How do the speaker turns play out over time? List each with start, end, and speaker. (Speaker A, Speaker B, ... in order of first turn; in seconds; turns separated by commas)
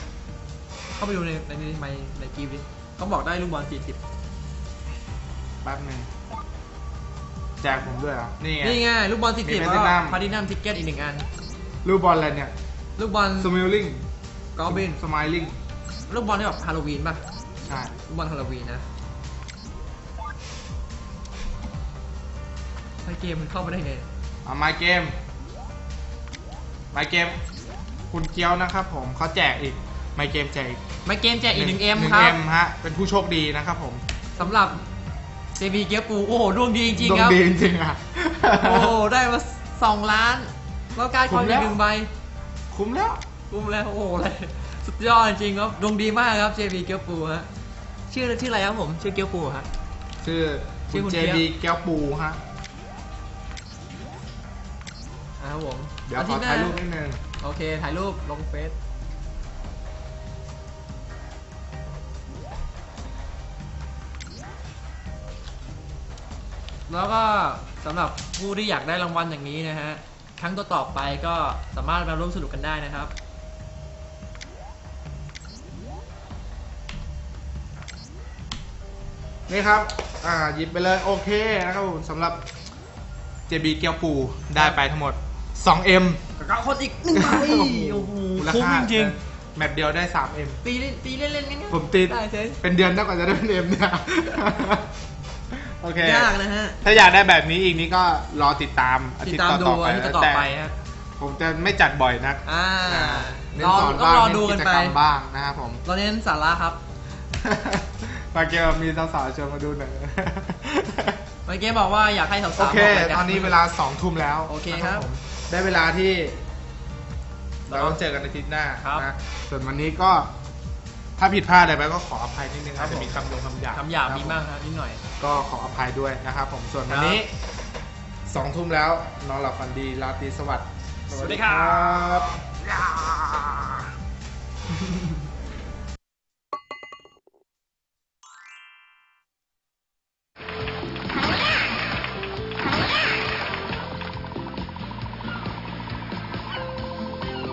Speaker A: 1.0-4.0, Speaker B: 5.6-6.1, Speaker B: 7.6-8.8, Speaker A: 8.6-11.3, Speaker B: 9.4-10.2, Speaker B: 11.8-12.5, Speaker A: 13.0-13.5, Speaker B: 13.4-14.1, Speaker A: 14.6-15.0, Speaker B: 14.7-15.6, Speaker A: 16.1-17.2, Speaker B: 17.6-17.9, Speaker A: 18.1-18.8, Speaker A: 23.0-24.1, Speaker B: 24.4-25.2, Speaker B: 26.9-27.4, Speaker B: 28.1-30.9, Speaker A: 31.1-32.4, Speaker B: 31.5-34.0, Speaker A: 34.4-34.8, Speaker A: 35.6-37.4, Speaker B: 36.9-39.0, Speaker A: 38.6-42.1, Speaker B: 41.3-41.8, Speaker B: 42.7-43.2, Speaker A: 43.5-47.5, Speaker A: 48.1-49.7, Speaker B: 50.2-52.4, Speaker A: 50.9-51.5, Speaker A: 55.4-56.8, Speaker B: 56.1-57.2, Speaker A: 57.4-58.8, Speaker A: 66.9-73.1, Speaker B: 79.5-82.5, Speaker B: 83.5-86.2, Speaker A: 86.4-89.2, Speaker B: 87.1-90.6, Speaker A: 90.6-92.6, Speaker B: 91.7-94.9, Speaker B: 95.5-100.5, Speaker A: 96.0-96.8, Speaker A: 99.2-100.7, Speaker B: 101.2-105.8, Speaker A: 102.5-105.0, Speaker A: 105.8-106.8, Speaker B: 107.3-111.2, Speaker A: 111.5-113.5, Speaker B: 112.6-116.4, Speaker A: 114.5-115.2, Speaker B: 117.7-120.3, Speaker A: 117.7-118.0, Speaker A: 118.8-119.1, Speaker B: 121.2-124.4, Speaker A: 122.8-123.1, Speaker A: 123.7-125.0, Speaker B: 125.2-127.3, Speaker A: 126.9-127.3, Speaker B: 128.3-132.4, Speaker A: 131.1-132.0